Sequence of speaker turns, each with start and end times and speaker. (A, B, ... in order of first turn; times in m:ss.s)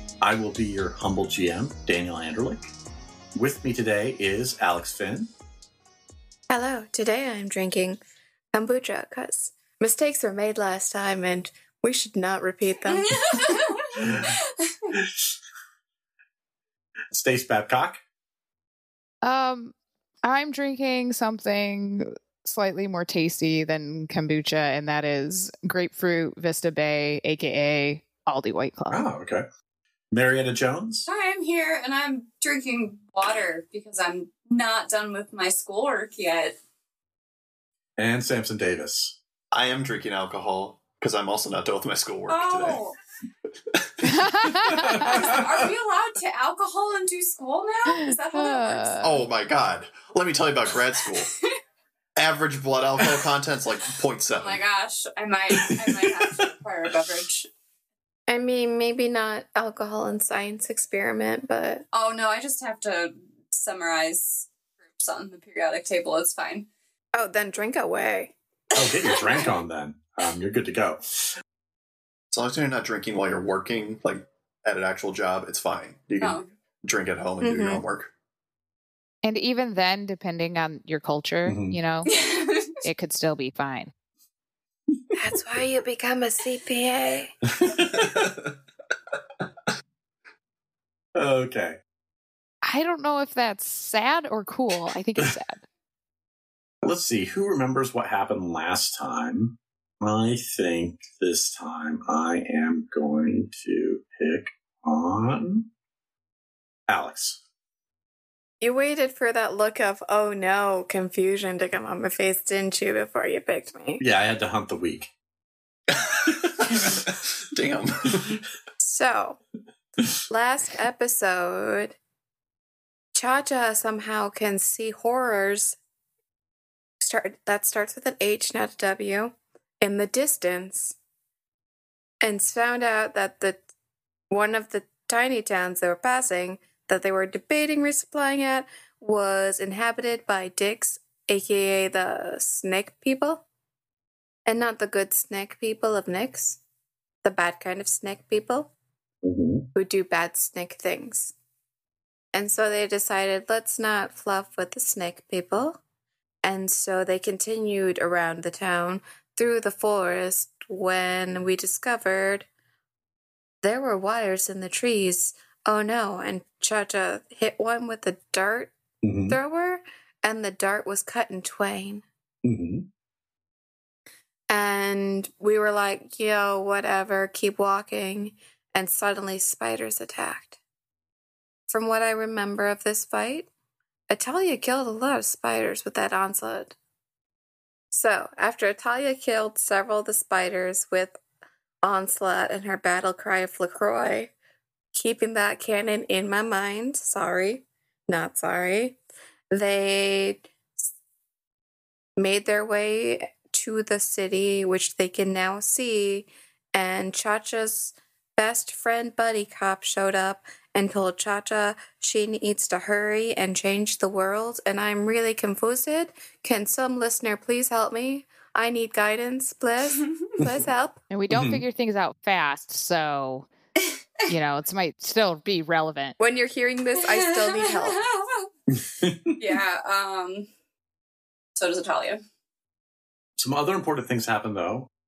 0:00.2-0:02.7 A
0:03.4-0:05.3 A
0:06.5-0:08.0 B
0:08.5-0:13.7 B
0:12.9-0:15.0 C
0:14.0-0:14.3 A
0:15.0-0:15.3 A
0:17.1-0:18.0 A
0:19.2-0:29.1 D
0:28.9-0:29.4 A
0:30.1-0:31.1 A
0:31.1-0:36.6 C
0:38.0-0:39.2 A
0:39.5-0:42.8 E
0:42.3-0:43.0 C
0:43.7-0:44.2 E
0:44.0-0:45.1 D
0:44.7-0:45.6 A
0:45.0-0:49.0 C
0:47.9-0:49.2 D
0:49.0-0:51.3 E
0:52.2-0:54.6 E
0:54.3-0:57.5 C
0:58.3-1:01.9 B
1:01.9-1:06.7 C
1:07.2-1:08.3 B
1:08.7-1:11.0 A
1:08.8-1:09.1 C
1:12.3-1:18.1 E
1:16.2-1:16.5 C
1:17.4-1:17.8 B
1:19.2-1:22.1 D
1:21.5-1:21.8 A
1:22.0-1:22.8 C
1:22.8-1:23.9 D
1:25.2-1:27.3 B
1:27.5-1:28.3 A
1:27.9-1:28.4 E
1:31.2-1:31.8 A
1:32.6-1:35.6 D
1:36.8-1:45.7 A
1:46.9-1:47.4 A
1:48.6-1:54.0 B
1:54.0-1:55.1 A
1:55.9-1:58.4 E
1:56.7-1:57.0 A
1:58.8-1:59.4 B
2:00.3-2:02.0 B
2:03.2-2:05.8 B
2:07.0-2:11.0 B
2:12.2-2:13.6 B
2:14.3-2:23.4 B
2:24.5-2:26.6 B
2:27.2-2:28.7 B
2:29.2-2:29.7 A
2:29.8-2:31.3 B
2:32.3-2:35.8 B
2:36.4-2:42.5 B
2:43.6-2:48.7 B
2:49.0-2:49.4 A
2:49.3-2:52.0 B
2:52.4-2:52.9 A
2:54.5-3:00.6 B
3:01.7-3:03.5 B
3:04.1-3:06.8 B
3:07.9-3:11.2 B
3:11.8-3:14.3 B
3:14.9-3:19.0 B
3:19.5-3:20.9 B
3:22.2-3:41.0 B
3:40.0-3:40.4 C
3:41.1-3:43.5 D
3:41.3-3:41.6 A
3:43.8-3:44.3 C
3:44.3-3:46.2 D
3:46.2-3:48.0 B
3:47.0-3:48.5 C
3:48.7-3:49.4 A
3:49.4-3:50.5 C
3:51.6-3:52.2 C
3:53.4-3:54.9 A